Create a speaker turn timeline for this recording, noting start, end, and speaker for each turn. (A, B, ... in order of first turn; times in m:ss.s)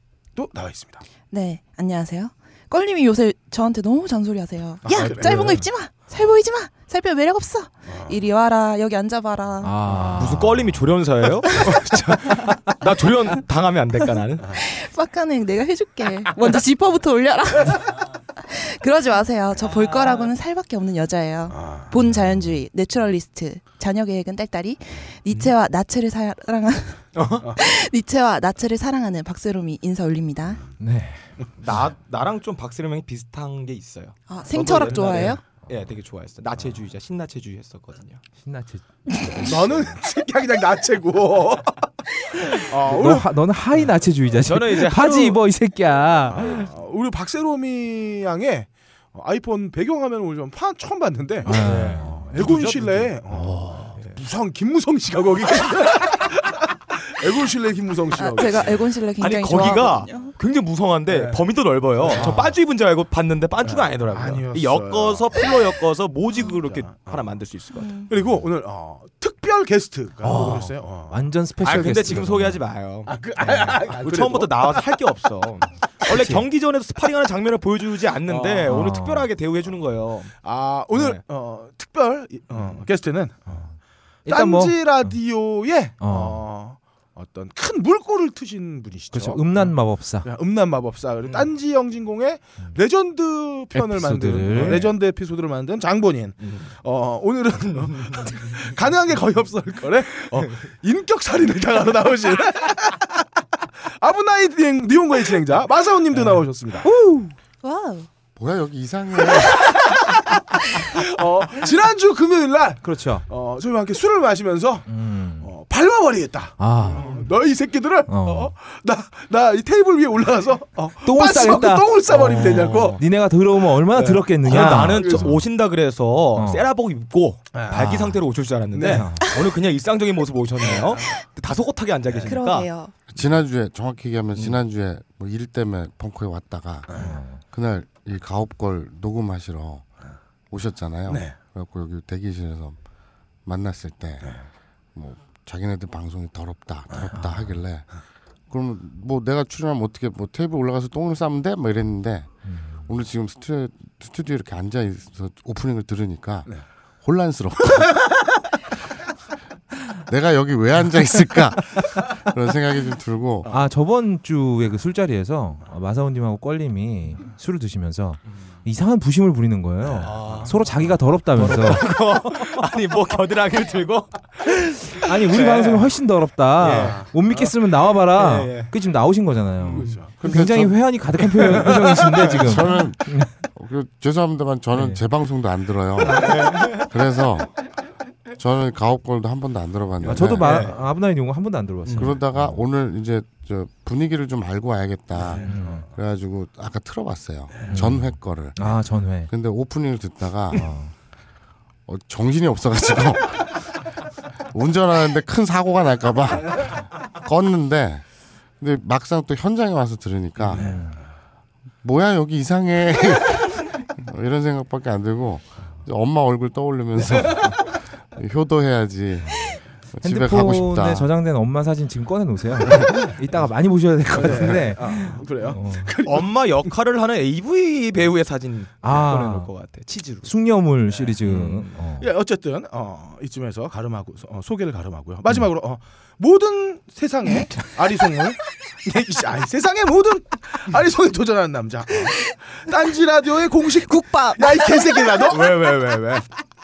0:00.4-0:01.0 A
0:01.3-0:09.8 B
0:04.8-0:05.6 A
0:07.9-0:08.2 A
0:09.6-0:10.8 C
0:10.2-0:14.5 D
0:14.5-0:27.0 B
0:21.5-0:21.9 A
0:27.2-0:27.5 D
0:27.6-0:30.6 B
0:30.8-0:31.2 C
0:31.6-0:38.2 D
0:34.3-0:35.4 B
0:34.5-0:35.4 A
0:38.4-0:40.0 C
0:39.4-0:41.8 A
0:42.5-0:43.3 A
0:42.8-0:46.7 C
0:44.4-0:45.4 D
0:46.4-0:58.8 A
0:51.4-0:53.1 D
0:51.4-0:52.3 C
0:53.3-0:54.0 C
0:58.1-1:00.3 B
0:59.2-1:07.9 D
1:01.1-1:01.4 A
1:02.0-1:02.6 A
1:03.6-1:05.3 A
1:06.7-1:07.2 A
1:07.8-1:08.1 B
1:08.1-1:11.2 A
1:10.2-1:12.6 C
1:10.3-1:10.6 D
1:11.6-1:20.4 D
1:13.1-1:14.8 A
1:16.1-1:16.4 C
1:18.3-1:18.7 A
1:18.7-1:19.3 C
1:20.4-1:23.7 A
1:20.9-1:21.2 D
1:24.2-1:25.1 C
1:24.3-1:43.2 A
1:26.0-1:26.4 C
1:29.1-1:30.3 C
1:33.7-1:34.9 C
1:34.5-1:34.9 D
1:43.9-1:46.9 A
1:46.8-1:47.3 C
1:47.6-1:48.1 B
1:48.4-1:49.6 E
1:49.3-1:54.9 A
1:52.8-1:53.2 C
1:54.9-1:55.5 C
1:55.4-2:03.0 A
1:56.6-1:57.2 C
1:57.0-1:57.2 D
1:58.1-1:58.5 C
2:01.0-2:05.4 C
2:02.1-2:03.0 D
2:03.9-2:05.3 A
2:04.4-2:12.7 D
2:06.4-2:06.7 C
2:07.5-2:07.9 A
2:07.7-2:08.2 C
2:08.7-2:09.1 A
2:08.8-2:09.4 C
2:10.6-2:11.0 A
2:12.3-2:12.9 B
2:13.1-2:19.8 E
2:17.0-2:17.4 C
2:20.5-2:22.8 E
2:21.1-2:21.4 A
2:23.4-2:24.4 E
2:25.0-2:27.9 E
2:27.1-2:27.5 C
2:28.5-2:38.0 E
2:32.5-2:32.8 C
2:40.1-2:43.5 E
2:43.5-2:51.9 C
2:50.0-2:50.5 D
2:51.4-2:55.9 D
2:54.9-3:03.3 C
2:56.6-2:57.1 D
2:56.7-2:57.1 A
2:58.1-2:58.7 D
2:59.6-3:00.2 A
3:00.2-3:00.8 E
3:01.2-3:02.3 D
3:02.3-3:07.5 E
3:06.0-3:06.9 D
3:08.4-3:10.6 E
3:10.0-3:12.6 C
3:10.4-3:10.7 D
3:11.9-3:12.1 D
3:12.0-3:18.8 E
3:15.2-3:15.8 A
3:15.4-3:15.9 C
3:17.7-3:19.3 C
3:19.3-3:20.7 E
3:20.6-3:20.9 C
3:21.9-3:23.6 E
3:24.5-3:28.1 E
3:28.6-3:30.7 E
3:30.5-3:31.0 C
3:31.8-3:41.1 E
3:40.0-3:45.9 C
3:44.1-3:46.3 A
3:46.0-3:50.3 D
3:48.8-3:49.5 C
3:50.2-3:52.1 C
3:51.2-3:51.7 D
3:52.0-4:05.7 A
4:03.8-4:05.0 B
4:05.3-4:06.2 D